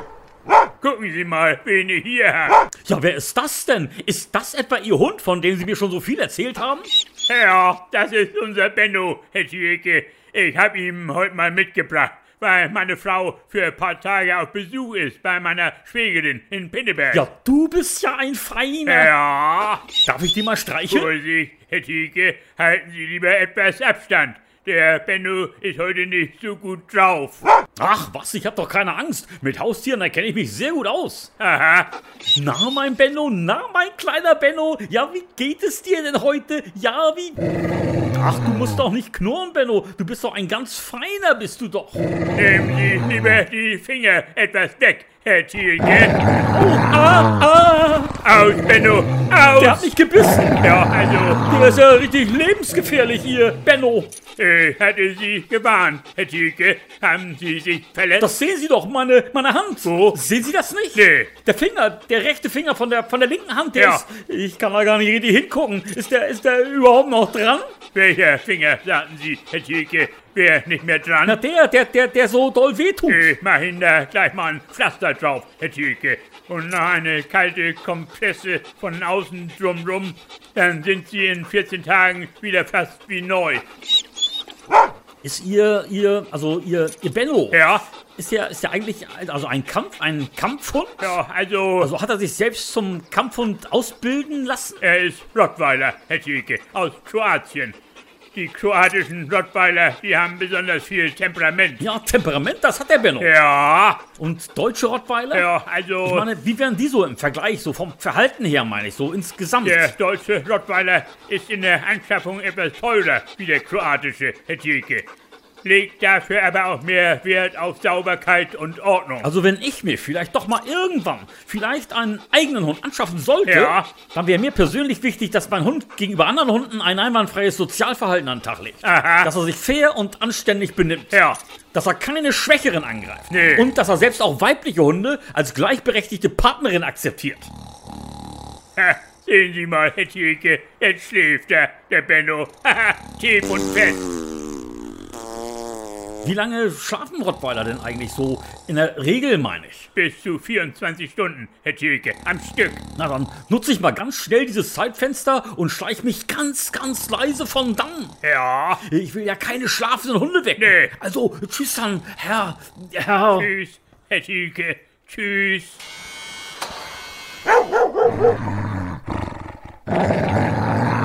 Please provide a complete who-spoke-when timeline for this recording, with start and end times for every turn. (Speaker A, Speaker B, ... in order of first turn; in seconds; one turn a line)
Speaker A: 0.8-2.6
Speaker B: 2.8-6.9
Speaker A: 7.3-17.2
Speaker B: 17.1-19.1
Speaker A: 18.9-19.8
Speaker B: 20.0-21.1
Speaker A: 20.9-27.4
Speaker B: 27.8-31.3
Speaker A: 31.4-31.9
Speaker B: 32.3-37.4
Speaker B: 38.1-42.0
Speaker A: 42.3-46.2
Speaker B: 46.5-48.1
Speaker A: 48.2-49.9
Speaker B: 49.6-50.7
Speaker A: 50.6-51.4
Speaker B: 51.4-54.1
Speaker A: 54.4-58.3
Speaker B: 58.2-67.7
Speaker A: 59.8-60.2
Speaker A: 60.9-61.3
Speaker A: 63.7-64.0
Speaker A: 67.9-71.4
Speaker B: 71.2-73.3
Speaker A: 73.1-83.6
Speaker B: 85.2-91.1
Speaker A: 87.5-87.8
Speaker A: 91.0-91.9
Speaker B: 91.8-94.8
Speaker A: 94.8-97.8
Speaker A: 98.3-101.8
Speaker B: 101.8-103.3
Speaker A: 103.2-104.0
Speaker B: 104.2-105.5
Speaker A: 105.3-106.3
Speaker B: 106.0-109.9
Speaker A: 109.6-115.1
Speaker A: 115.6-119.3
Speaker B: 119.2-137.5
Speaker A: 123.5-123.9
Speaker A: 128.8-129.3
Speaker A: 131.1-131.4
Speaker A: 133.3-133.7
Speaker A: 138.8-144.0
Speaker B: 146.2-149.9
Speaker A: 149.9-152.8
Speaker B: 153.0-158.2
Speaker A: 158.2-158.8
Speaker B: 158.8-163.5
Speaker A: 160.6-160.9
Speaker A: 163.3-165.8